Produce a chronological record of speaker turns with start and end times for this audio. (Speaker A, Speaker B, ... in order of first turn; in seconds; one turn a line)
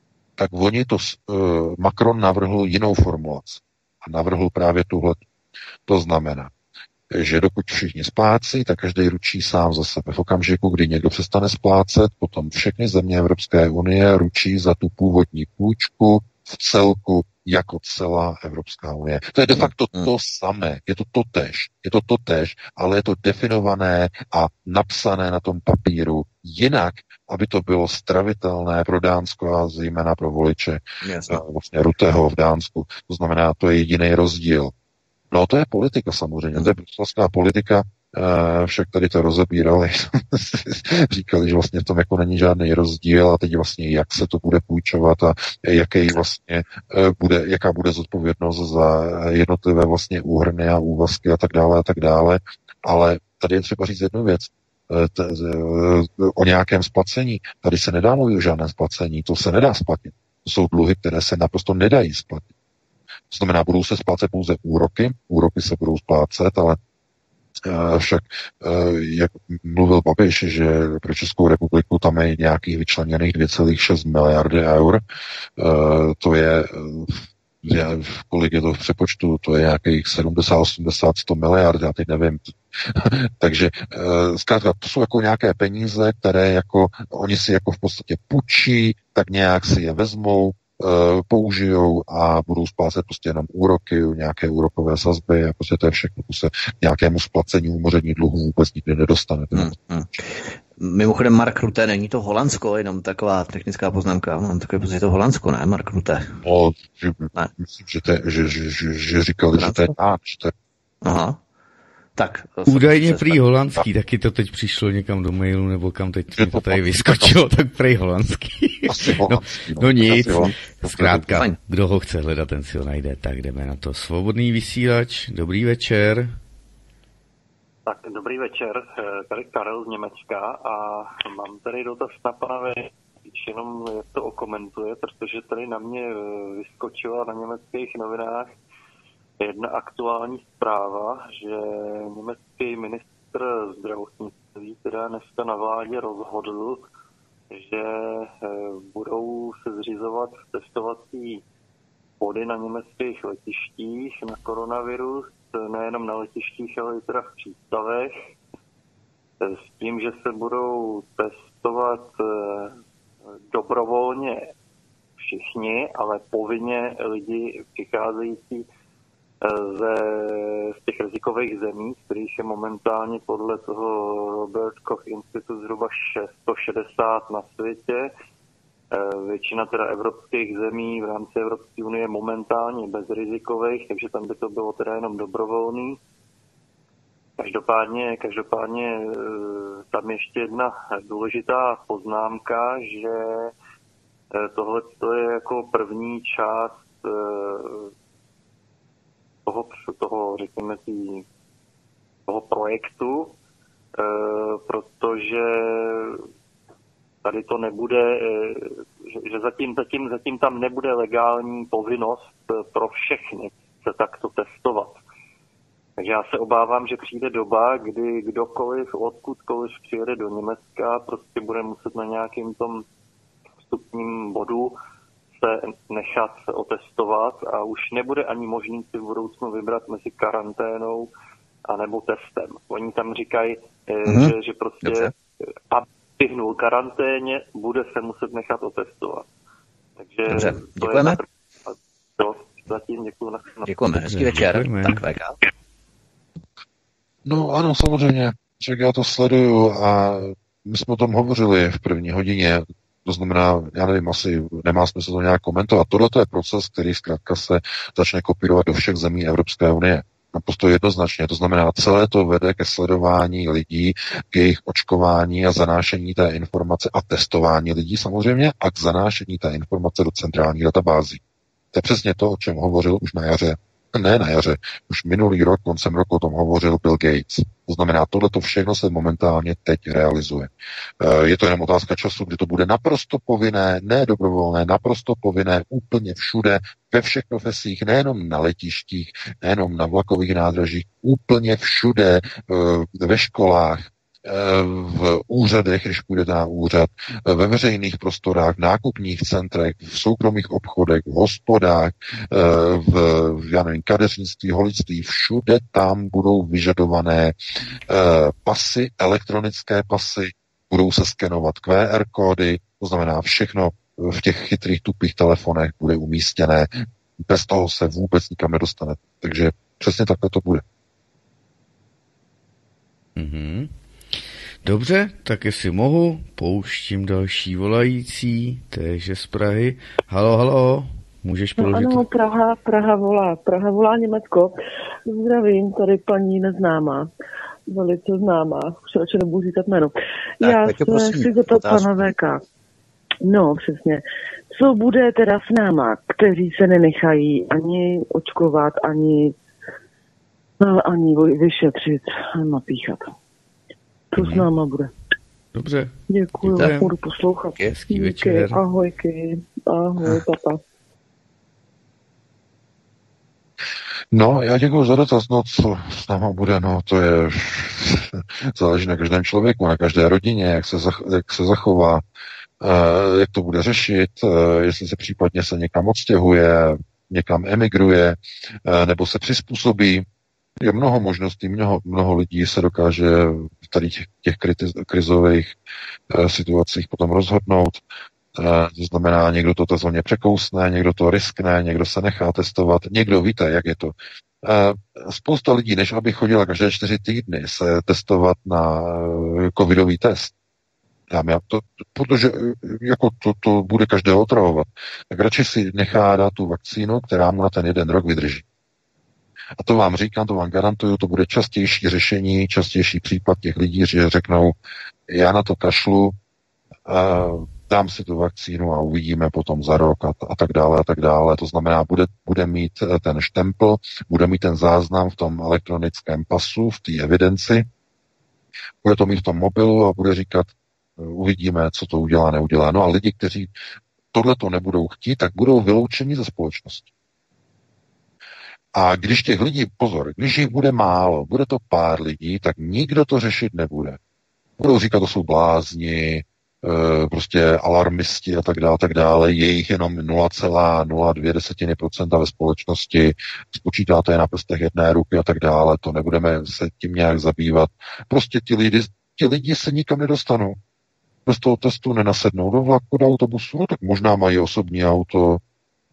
Speaker A: 0.4-5.2
Speaker A: 5.9-6.5
Speaker A: 7.1-34.7
Speaker B: 31.0-31.4
Speaker A: 35.3-62.5
Speaker A: 63.3-66.8
Speaker A: 67.6-75.0
Speaker A: 75.6-99.7
Speaker B: 99.5-106.4
Speaker A: 106.4-110.5
Speaker B: 109.5-109.9
Speaker B: 111.0-111.4
Speaker B: 112.2-113.4
Speaker C: 112.7-126.3
Speaker A: 116.3-117.4
Speaker A: 118.9-121.4
Speaker D: 127.8-138.6
Speaker D: 139.4-146.8
Speaker D: 147.5-151.4
Speaker D: 152.2-158.2
Speaker D: 159.4-162.8
Speaker D: 163.5-164.5
Speaker D: 165.2-168.6
Speaker D: 169.4-178.1
Speaker D: 178.9-186.0
Speaker D: 187.4-193.5
Speaker D: 194.3-197.9
Speaker D: 199.4-201.2
Speaker D: 202.3-203.3
Speaker D: 204.0-206.2
Speaker D: 207.2-215.0
Speaker D: 216.0-222.8
Speaker D: 223.7-224.7
Speaker D: 225.4-231.1
Speaker D: 231.7-235.1
Speaker B: 234.1-235.1
Speaker D: 235.7-239.2
Speaker D: 240.0-243.7
Speaker B: 240.3-241.2
Speaker B: 243.7-245.4
Speaker C: 243.9-245.0
Speaker A: 247.2-271.2
Speaker A: 271.7-307.4
Speaker A: 307.9-320.6
Speaker C: 323.2-323.7
Speaker C: 324.6-332.0
Speaker E: 331.6-334.5
Speaker E: 335.1-337.1
Speaker E: 337.7-342.4
Speaker B: 340.4-342.1
Speaker E: 343.2-349.3
Speaker E: 350.6-353.1
Speaker E: 354.1-354.9
Speaker C: 354.2-354.5
Speaker C: 355.5-356.9
Speaker E: 356.1-360.6
Speaker C: 357.6-358.6
Speaker A: 364.1-372.0
Speaker A: 372.6-380.1
Speaker A: 380.6-385.5
Speaker A: 386.1-387.8
Speaker A: 388.4-400.3
Speaker A: 401.1-408.4
Speaker A: 409.6-414.6
Speaker A: 415.1-416.1
Speaker A: 416.9-427.7
Speaker A: 428.8-433.5
Speaker A: 434.1-436.9
Speaker A: 438.7-444.0
Speaker A: 444.6-460.6
Speaker A: 461.2-465.4